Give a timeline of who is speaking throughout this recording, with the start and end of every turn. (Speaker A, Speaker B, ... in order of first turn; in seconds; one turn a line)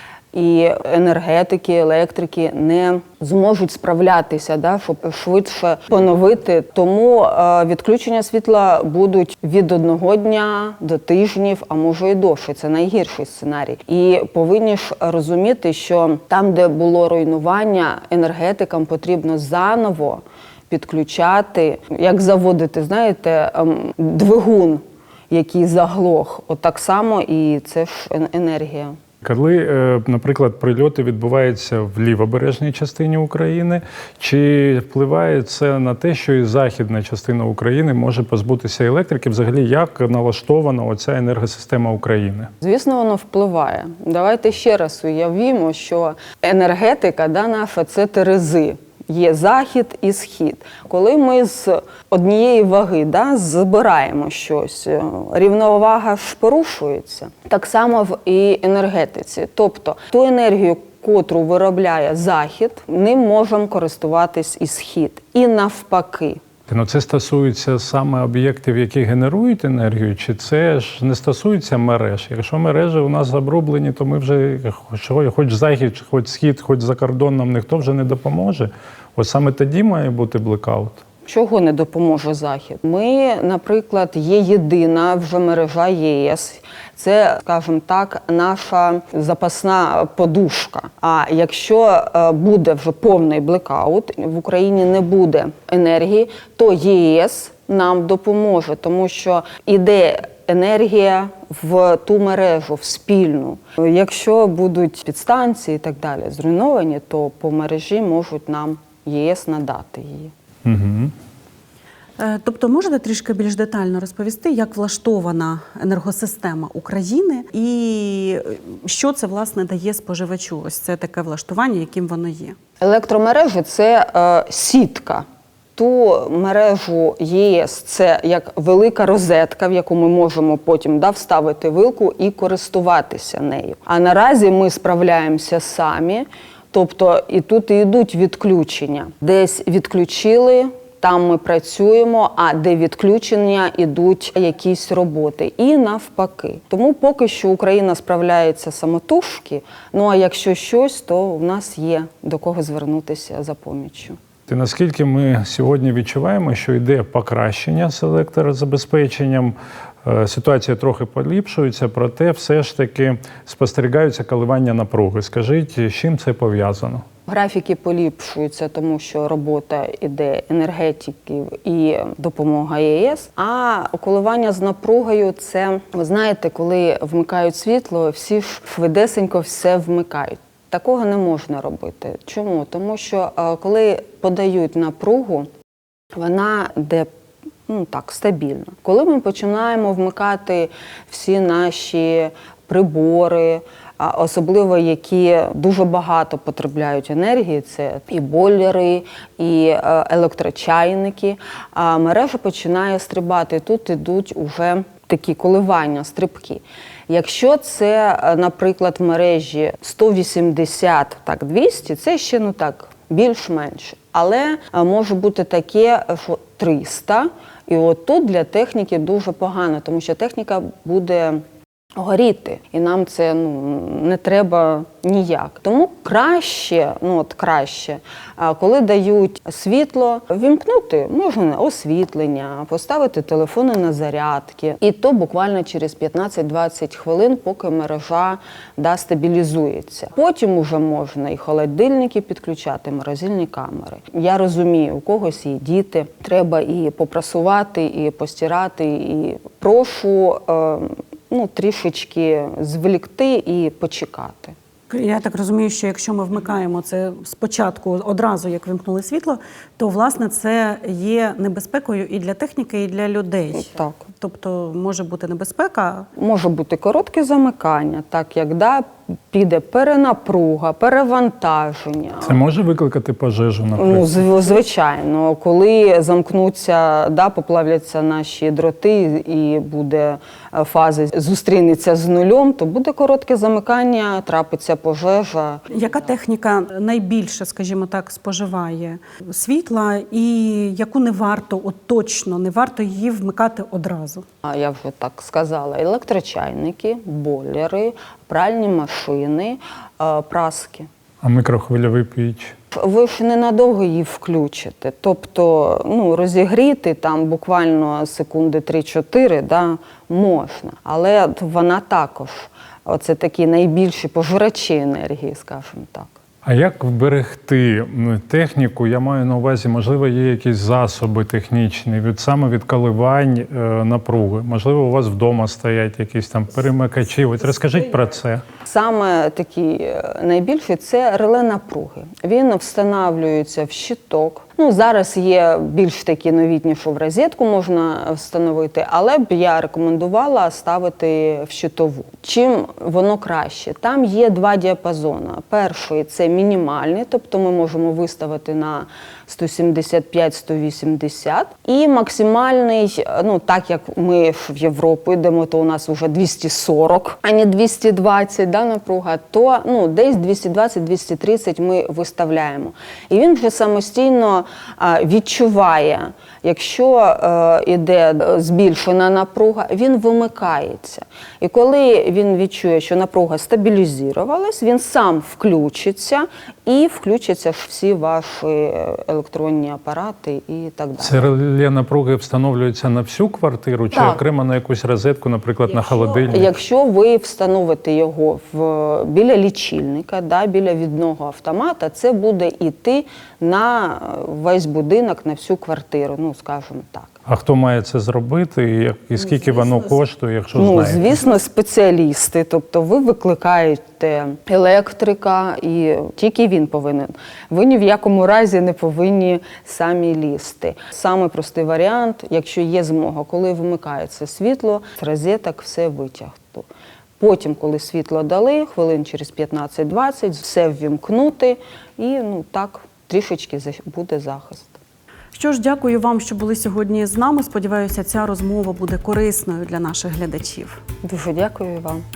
Speaker A: 0.3-28.9
Speaker B: 29.2-42.5
Speaker A: 42.6-66.4
Speaker B: 66.7-81.0
Speaker A: 81.2-110.3
Speaker B: 110.6-111.1
Speaker C: 112.2-122.5
Speaker A: 122.8-154.2
Speaker B: 154.5-167.0
Speaker A: 167.3-185.5
Speaker A: 186.1-187.1
Speaker A: 187.7-221.4
Speaker A: 221.9-254.6
Speaker C: 254.9-266.1
Speaker A: 263.5-264.1
Speaker A: 266.2-272.4
Speaker B: 272.2-274.2
Speaker A: 273.8-285.6
Speaker C: 285.7-294.2
Speaker A: 294.4-300.9
Speaker B: 301.2-302.5
Speaker A: 302.7-316.1
Speaker B: 316.4-328.4
Speaker A: 328.6-381.2
Speaker B: 381.0-386.5
Speaker A: 383.9-384.2
Speaker A: 386.1-397.1
Speaker B: 397.2-401.1
Speaker A: 400.6-416.7
Speaker A: 417.2-424.8
Speaker C: 425.3-430.8
Speaker A: 431.0-432.0